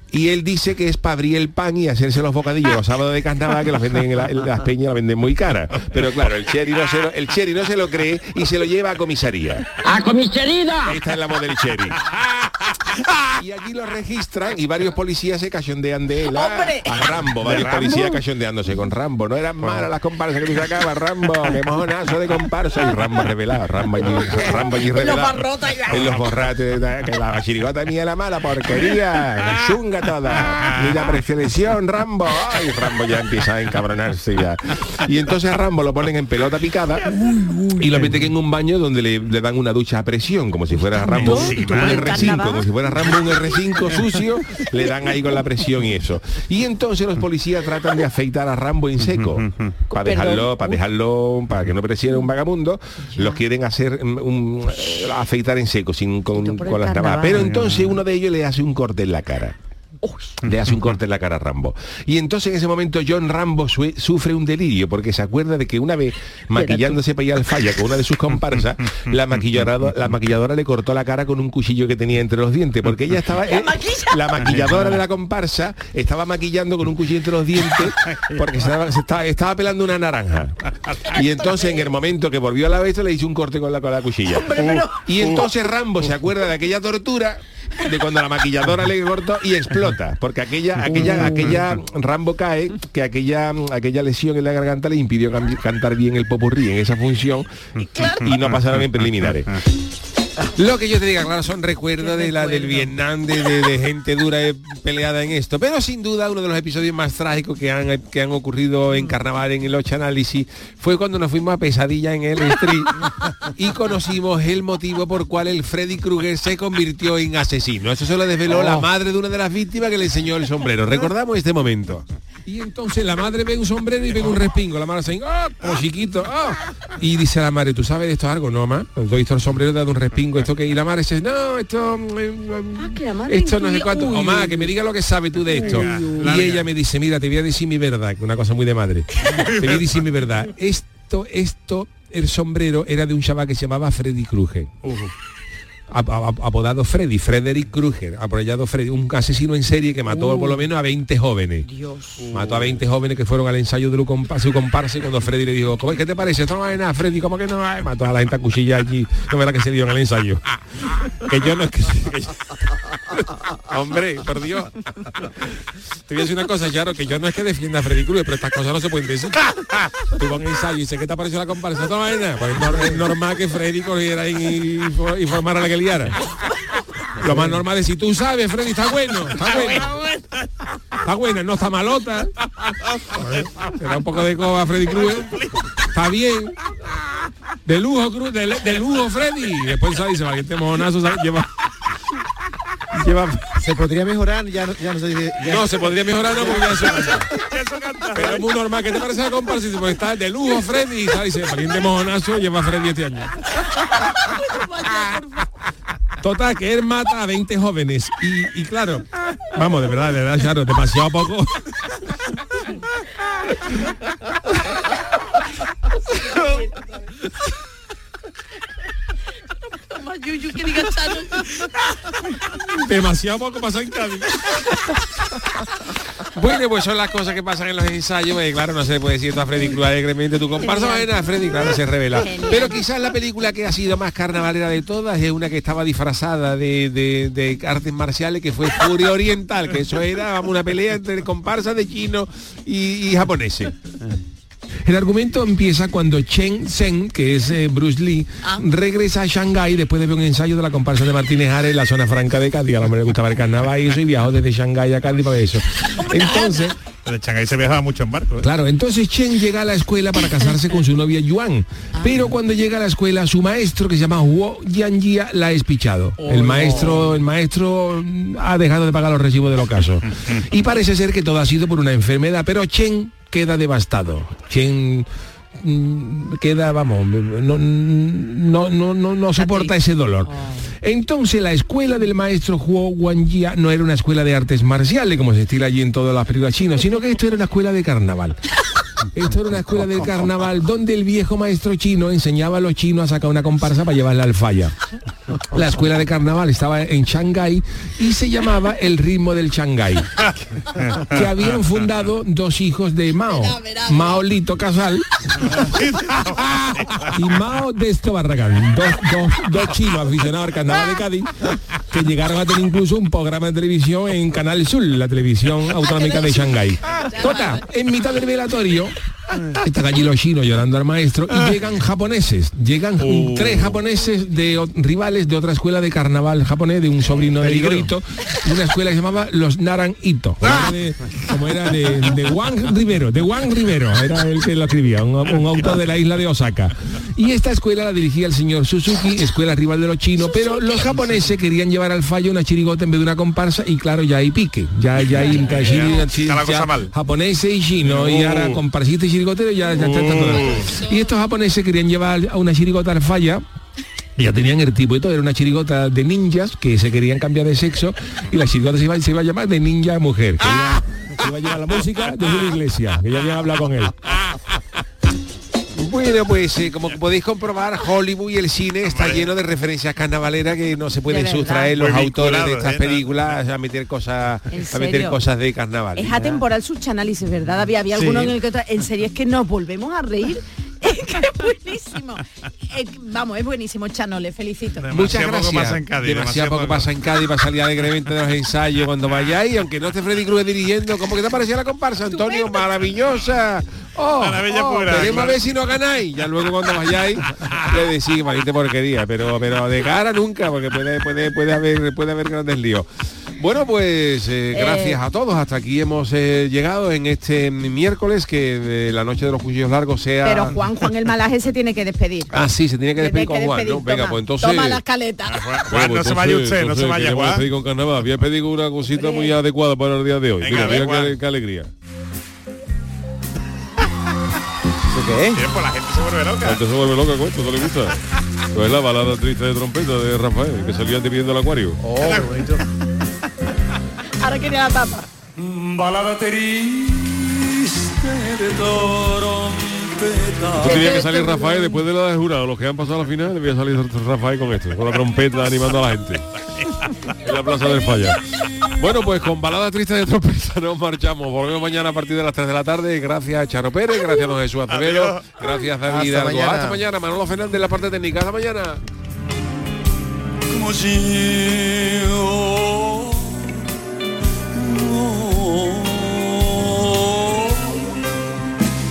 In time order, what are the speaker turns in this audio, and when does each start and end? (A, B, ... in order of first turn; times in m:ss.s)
0:00.1-0:09.7 A
0:10.0-0:10.7 B
0:10.8-0:12.0 A
0:13.4-0:37.0 A
0:16.3-0:18.2 B
0:17.4-0:17.8 C
0:19.6-0:19.9 C
0:24.1-0:26.1 B
0:30.6-0:30.8 C
0:37.3-0:38.0 B
0:37.8-0:59.5 A
0:41.0-0:42.7 B
0:41.2-0:42.3 C
0:49.0-0:49.7 C
0:49.9-0:50.8 B
0:53.1-0:53.4 B
0:56.3-0:57.5 B
0:57.3-0:58.0 C
1:00.0-1:00.4 B
1:00.4-1:20.6 A
1:00.5-1:00.7 C
1:06.6-1:07.0 B
1:13.4-1:14.5 B
1:14.5-1:15.0 C
1:21.1-1:39.5 A
1:21.4-1:21.8 B
1:24.3-1:25.0 B
1:24.5-1:25.4 C
1:30.9-1:31.6 B
1:30.9-1:31.6 C
1:37.8-1:39.5 C
1:40.5-2:24.7 A
1:42.0-1:42.9 B
2:12.8-2:14.7 B
2:15.4-2:16.4 B
2:15.7-2:16.7 C
2:19.3-2:19.9 C
2:24.8-2:25.1 C
2:25.9-2:31.7 A
2:30.1-2:30.6 B
2:31.6-2:32.3 B
2:32.2-2:32.8 C
2:32.3-2:40.4 A
2:41.1-2:42.5 A
2:43.1-2:45.3 A
2:46.1-2:49.5 A
2:50.1-2:56.2 A
2:57.2-2:59.9 A
2:59.4-3:00.6 C
3:01.0-3:02.3 A
3:02.9-3:03.6 C
3:03.2-3:05.4 A
3:04.8-3:05.8 C
3:05.9-3:06.5 A
3:07.6-3:11.5 A
3:12.9-3:13.4 A
3:13.6-3:16.9 D
3:15.4-3:17.3 A
3:16.9-3:17.2 B
3:17.3-3:18.4 C
3:18.1-3:23.3 A
3:23.9-3:25.5 B
3:26.2-3:31.6 A
3:39.8-3:41.6 B
3:42.6-3:44.8 A
3:46.2-4:03.7 A
3:50.6-3:51.1 B
3:52.2-3:52.8 B
4:04.8-4:16.7 A
4:16.0-4:16.7 B
4:17.0-4:18.5 C
4:18.4-4:48.4 A
4:22.0-4:22.3 B
4:26.2-4:27.1 B
4:39.4-4:39.7 B
4:40.2-4:40.6 B
4:49.1-4:54.7 A
4:55.5-5:00.1 A
5:00.3-5:01.7 C
5:01.1-5:05.8 A
5:03.3-5:04.3 B
5:05.6-5:07.2 C
5:06.4-5:18.9 A
5:15.8-5:17.6 B
5:19.5-5:53.4 A
5:23.0-5:23.8 C
5:27.4-5:27.7 C
5:30.4-5:30.7 C
5:45.2-5:45.7 B
5:45.3-5:46.9 C
5:47.8-5:48.6 C
5:49.7-5:50.7 C
5:54.2-6:04.0 A
6:05.8-6:16.2 A
6:08.8-6:09.3 C
6:11.1-6:11.7 B
6:11.7-6:13.2 C
6:14.5-6:15.2 B
6:15.9-6:24.9 B
6:18.0-6:18.3 A
6:24.8-6:26.9 C
6:24.9-6:42.9 A
6:32.1-6:32.6 B
6:34.2-6:35.4 C
6:34.5-6:35.2 B
6:43.4-6:50.6 A
6:44.5-6:45.0 B
6:50.2-6:52.4 B
6:52.3-6:54.8 A
6:53.0-6:55.6 B
6:55.2-6:57.4 C
6:55.7-7:01.7 A
6:58.9-6:59.3 B
7:00.4-7:01.2 C
7:04.8-7:05.4 D
7:05.3-7:06.6 C
7:06.4-7:08.0 A
7:08.5-7:11.8 A
7:11.8-7:12.6 D
7:12.0-7:12.5 C
7:14.2-7:15.0 B
7:15.4-7:20.8 E
7:20.6-7:26.2 A
7:20.6-7:21.8 B
7:27.2-7:28.2 A
7:28.8-7:38.8 A
7:34.7-7:35.4 C
7:35.8-7:36.8 D
7:40.5-7:43.6 E
7:44.5-7:48.2 E